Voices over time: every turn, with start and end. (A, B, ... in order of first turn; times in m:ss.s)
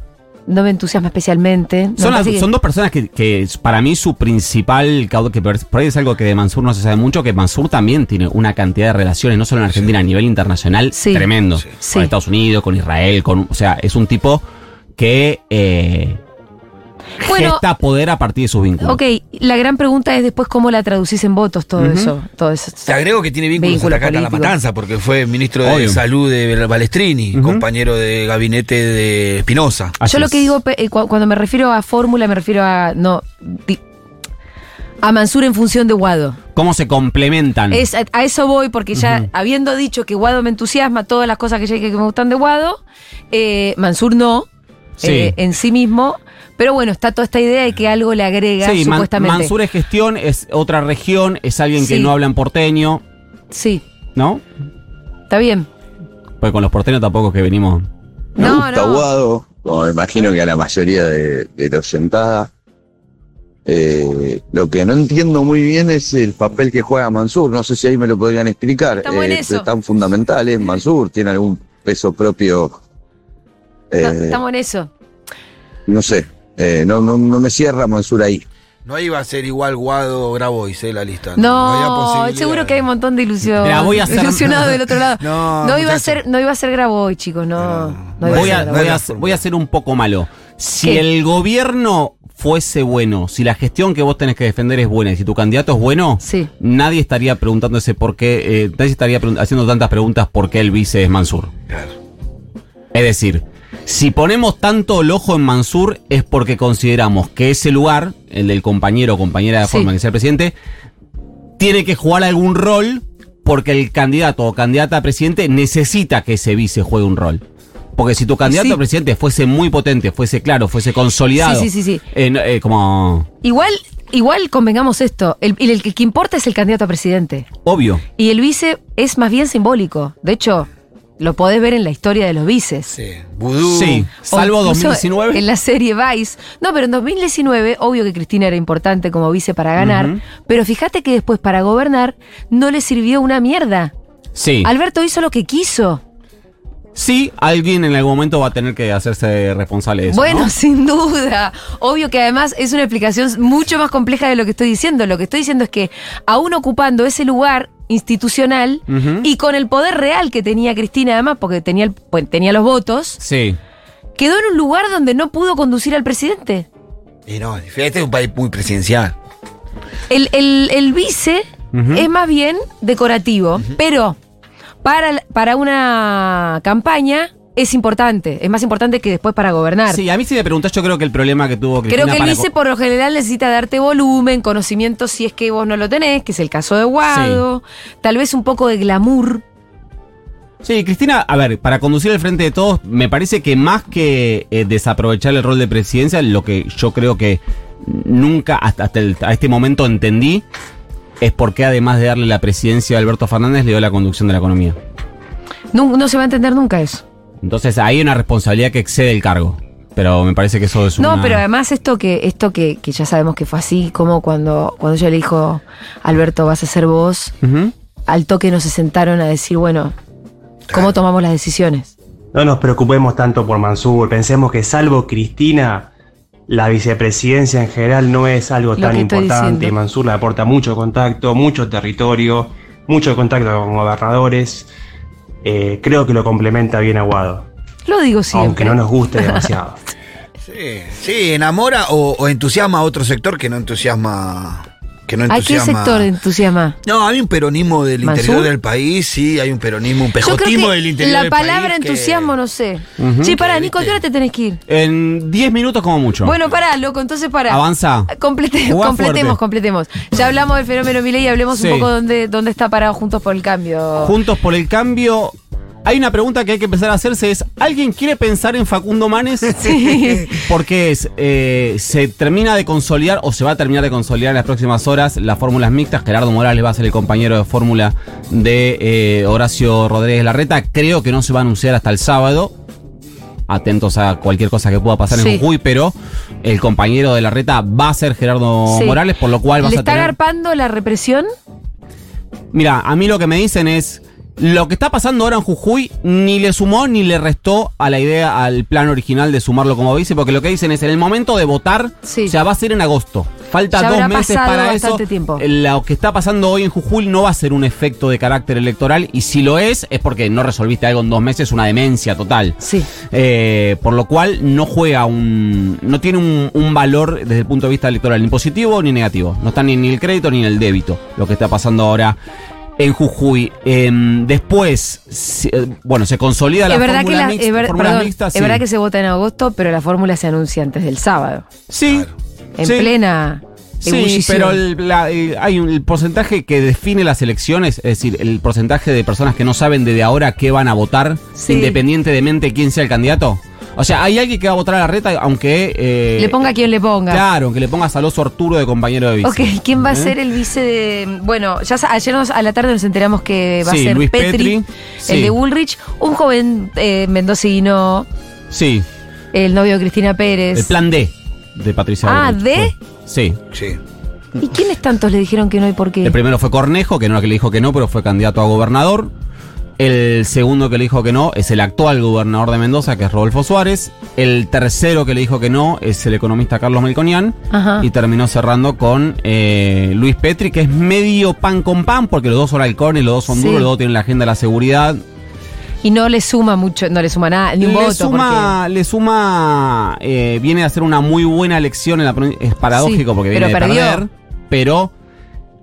0:00.5-0:02.4 A
0:02.0-0:14.4 B
0:10.9-0:11.3 A
0:11.8-0:12.1 A
0:15.0-0:16.2 B
0:17.2-0:17.6 A
0:17.2-0:19.0 B
0:18.8-0:22.9 A
0:21.8-0:22.1 B
0:22.8-0:30.0 C
0:23.5-0:24.5 A
0:25.6-0:26.0 B
0:27.3-0:27.6 B
0:30.0-0:30.5 B
0:30.0-0:33.8 A
0:35.0-0:36.4 A
0:36.5-0:37.8 B
0:37.7-0:42.8 A
0:38.9-0:39.2 B
0:43.3-0:44.5 A
0:45.0-0:49.5 A
0:45.0-0:45.4 B
0:48.6-0:53.0 B
0:51.8-0:52.1 A
0:53.5-0:53.8 A
0:54.2-0:54.4 B
0:55.3-0:55.7 A
0:56.4-0:57.8 B
0:58.4-0:59.1 A
0:58.4-1:02.5 D
1:03.6-1:12.8 D
1:09.0-1:09.7 A
1:13.9-1:14.4 D
1:14.0-1:14.9 A
1:15.9-1:18.4 D
1:18.8-1:22.8 C
1:21.4-1:28.9 A
1:23.6-1:24.8 B
1:25.2-1:26.2 C
1:27.6-1:29.4 C
1:28.3-1:41.5 B
1:36.2-1:36.5 A
1:42.9-1:50.5 B
1:51.6-1:57.4 B
1:58.0-2:03.3 B
1:58.4-1:58.8 A
2:01.4-2:02.0 A
2:03.4-2:07.5 A
2:07.6-2:08.0 B
2:08.2-2:10.7 A
2:11.2-2:12.9 A
2:12.9-2:14.1 C
2:13.6-2:15.4 B
2:14.3-2:23.9 A
2:19.8-2:20.2 B
2:24.3-2:24.7 B
2:24.6-2:26.0 A
2:26.9-2:30.5 B
2:30.1-2:43.2 A
2:38.9-2:39.3 B
2:43.2-2:43.6 B
2:44.2-2:46.7 A
2:47.3-2:49.1 C
2:50.1-2:54.2 A
2:51.7-2:52.0 B
2:54.8-3:00.0 A
2:59.9-3:02.5 B
3:01.9-3:09.4 A
3:07.0-3:07.4 B
3:10.6-3:20.4 B
3:21.2-3:24.8 B
3:25.7-3:27.0 A
3:27.4-3:31.4 B
3:31.0-3:37.3 A
3:37.4-3:37.7 B
3:38.1-3:39.9 A
3:40.7-3:41.9 A
3:42.3-3:45.9 E
3:46.5-3:54.7 E
3:48.8-3:49.7 A
3:55.4-3:57.4 E
3:57.9-3:59.5 A
3:58.3-3:59.8 E
4:00.4-4:06.1 C
4:05.3-4:06.8 A
4:06.8-4:12.3 C
4:08.0-4:08.5 A
4:10.2-4:14.6 A
4:13.0-4:13.3 B
4:13.3-4:14.0 C
4:14.7-4:16.3 B
4:16.2-4:24.1 A
4:17.5-4:18.1 B
4:18.6-4:19.4 B
4:21.5-4:21.9 B
4:24.0-4:25.3 B
4:25.8-4:42.5 B
4:29.6-4:30.4 A
4:43.5-4:50.1 B
4:45.1-4:45.4 A
4:48.7-4:49.0 A
4:49.6-4:51.3 A
4:52.5-5:12.6 B
5:02.0-5:02.3 A
5:03.7-5:05.4 A
5:12.6-5:12.9 A
5:13.1-5:22.2 B
5:22.8-5:28.6 B
5:26.7-5:31.4 A
5:31.7-5:32.1 B
5:32.6-5:34.6 A
5:32.6-5:32.9 B
5:33.8-5:46.5 B
5:41.4-5:41.8 A
5:46.2-5:47.2 A
5:47.1-5:50.1 B
5:49.2-5:58.1 A
5:53.6-5:55.3 B
5:58.5-5:58.8 B
5:59.3-6:00.7 A
6:00.5-6:03.4 B
6:02.0-6:02.7 A
6:03.5-6:03.8 C
6:04.4-6:06.1 A
6:06.0-6:09.1 B
6:09.8-6:25.0 B
6:17.5-6:17.9 A
6:23.3-6:23.7 A
6:25.8-6:28.5 A
6:27.6-6:34.9 B
6:32.7-6:34.0 A